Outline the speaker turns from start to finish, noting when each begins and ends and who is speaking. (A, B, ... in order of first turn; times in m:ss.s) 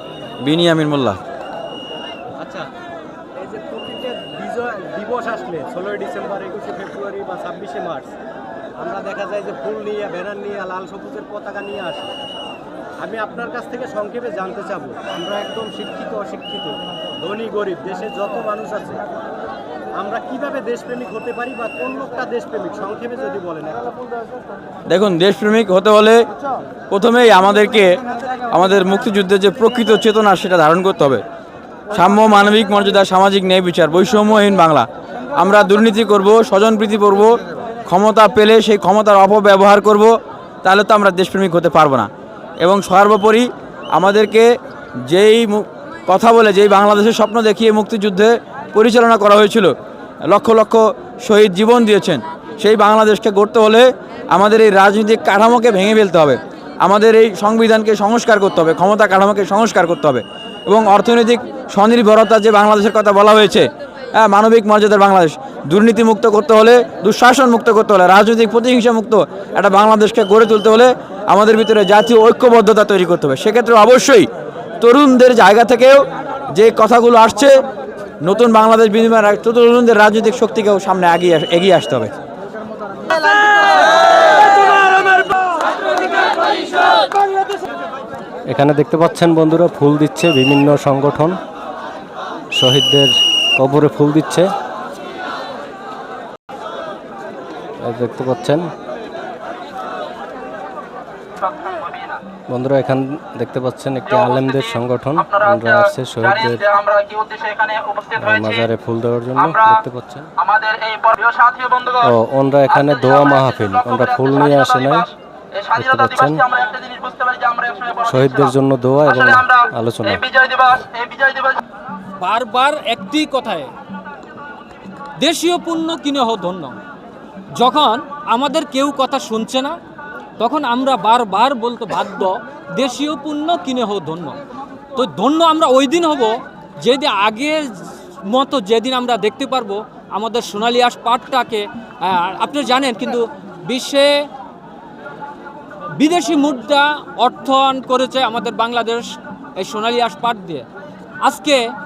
0:00.4-0:01.2 A
0:02.4-0:02.7 B
0:03.4-0:08.1 B
0:08.8-0:12.1 B
0:13.0-0:19.0 B
0:20.0-0:23.8 B
0:24.9-0:26.2 A
0:26.9-0:28.0 A
0:28.5-0:31.2 A
0:31.9-0:42.1 A
0:42.6-0:44.5 A
0:45.1-0:49.7 A
0:50.2-1:17.6 A
1:18.2-1:22.1 A
1:28.5-1:31.4 C
1:32.6-1:34.5 C
1:37.8-1:38.7 C
1:41.4-1:42.2 D
1:42.5-1:46.6 C
1:44.1-1:48.6 D
1:48.2-1:50.3 C
1:49.4-1:49.8 D
1:50.4-1:52.1 D
1:52.0-1:55.1 C
1:52.7-1:58.5 D
1:55.8-1:56.4 C
1:58.1-2:00.2 C
1:59.1-2:01.6 D
2:02.2-2:03.7 E
2:05.2-2:06.8 E
2:07.6-2:09.8 E
2:10.4-2:14.4 E
2:15.0-2:24.1 E
2:26.0-2:30.7 E
2:31.2-2:31.6 E